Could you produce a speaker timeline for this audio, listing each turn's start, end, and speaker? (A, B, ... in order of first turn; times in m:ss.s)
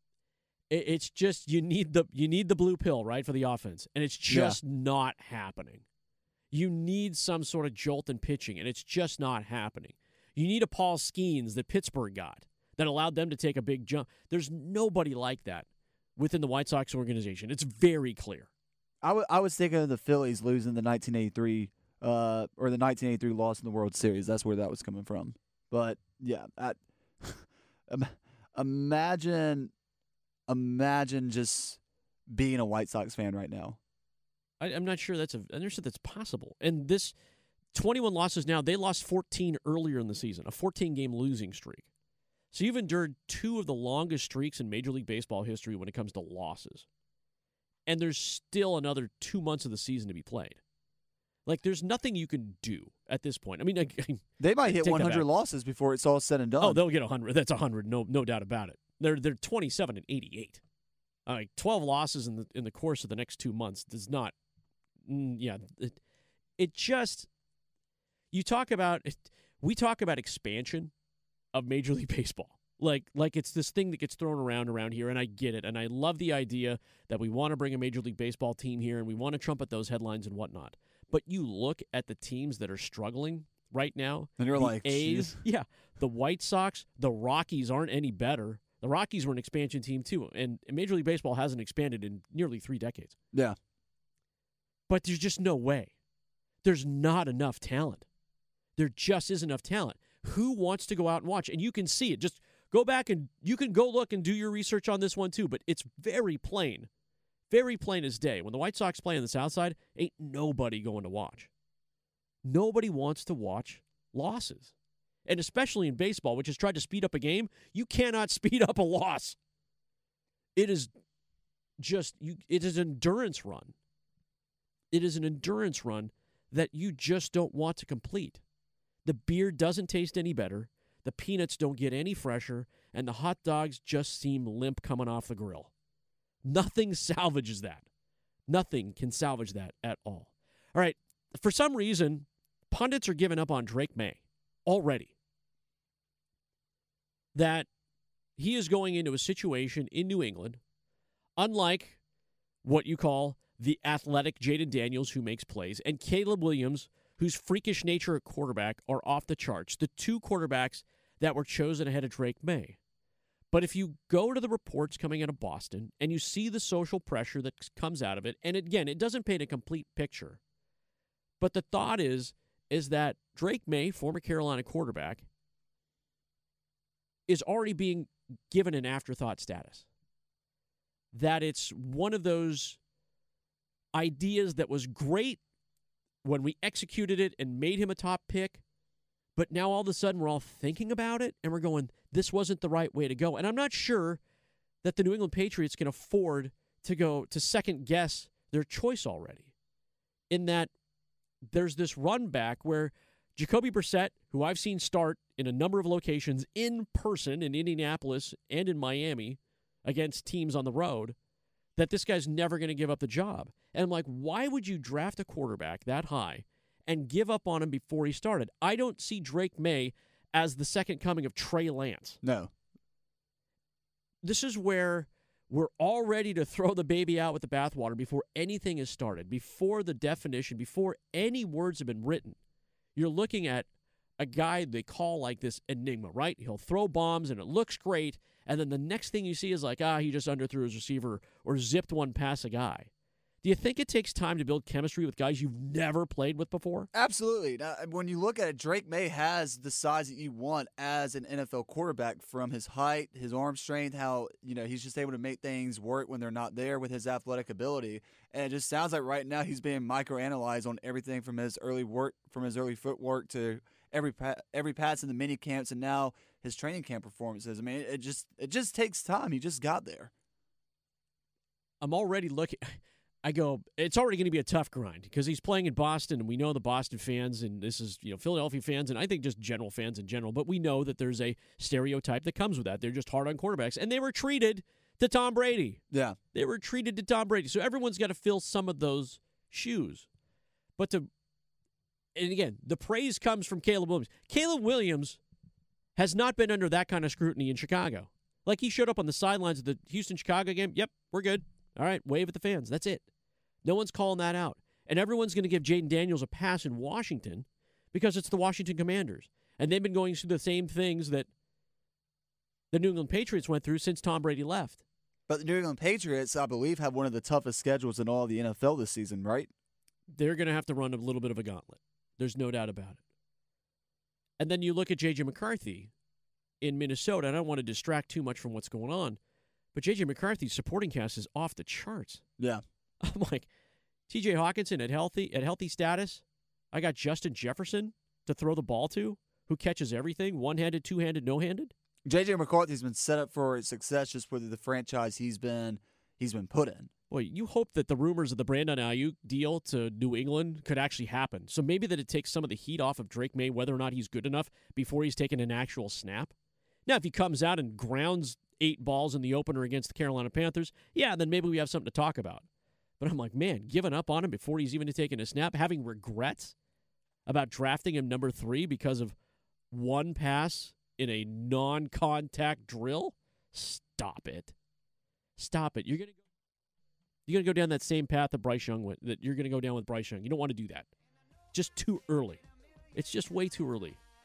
0:00.7-0:05.8 A
0:04.3-0:04.6 B
0:06.5-0:18.5 A
0:19.0-0:29.7 B
0:30.5-0:31.8 B
0:32.3-0:33.8 B
0:34.6-0:37.2 A
0:37.7-0:41.9 A
0:42.5-0:46.9 A
0:47.9-0:50.6 A
0:51.5-0:55.3 A
0:54.4-0:56.8 B
0:56.6-1:00.6 A
1:01.3-1:04.4 A
1:05.0-1:06.0 A
1:06.6-1:07.3 A
1:08.3-1:10.9 A
1:11.5-1:33.2 A
1:24.4-1:25.4 B
1:34.9-1:35.9 A
1:36.6-1:38.1 A
1:38.8-1:46.9 A
1:47.5-1:51.5 A
1:52.4-1:54.7 A
1:55.3-1:59.4 A
2:00.6-2:00.9 A
2:01.8-2:03.7 A
2:04.9-2:08.4 A
2:09.0-2:15.7 A
2:16.4-2:17.9 A
2:18.5-2:25.1 A
2:27.3-2:27.7 A
2:28.4-2:30.6 A
2:31.4-2:32.0 A
2:32.6-2:42.8 A
2:43.5-2:50.4 A
2:51.4-2:55.3 A
2:57.3-2:59.9 A
3:01.1-3:02.8 A
3:03.9-3:05.4 A
3:06.2-3:08.6 A
3:09.4-3:14.2 A
3:14.8-3:19.5 A
3:20.3-3:20.7 A
3:21.5-3:31.2 A
3:31.8-3:42.2 A
3:42.2-3:42.5 B
3:44.2-3:52.4 A
3:53.0-3:53.7 A
3:54.2-4:02.9 A
4:03.4-4:06.9 A
4:06.9-4:30.1 B
4:31.8-4:45.8 A
4:45.9-4:46.2 B
4:46.3-4:50.1 A
4:50.8-4:51.1 A
4:52.2-4:55.2 A
4:56.0-5:03.0 A
5:03.6-5:11.3 A
5:12.7-5:14.8 A
5:15.3-5:19.5 B
5:20.1-5:23.0 A
5:24.4-5:25.9 A
5:26.6-5:29.2 A
5:29.7-5:32.2 A
5:33.0-5:33.5 A
5:34.1-5:41.7 A
5:42.1-5:46.9 B
5:47.1-5:56.3 A
5:56.9-6:02.4 A
6:03.0-6:06.6 A
6:07.3-6:09.2 A
6:09.7-6:14.5 A
6:15.4-6:16.2 A
6:17.3-6:20.9 A
6:21.5-6:22.4 A
6:23.0-6:24.0 A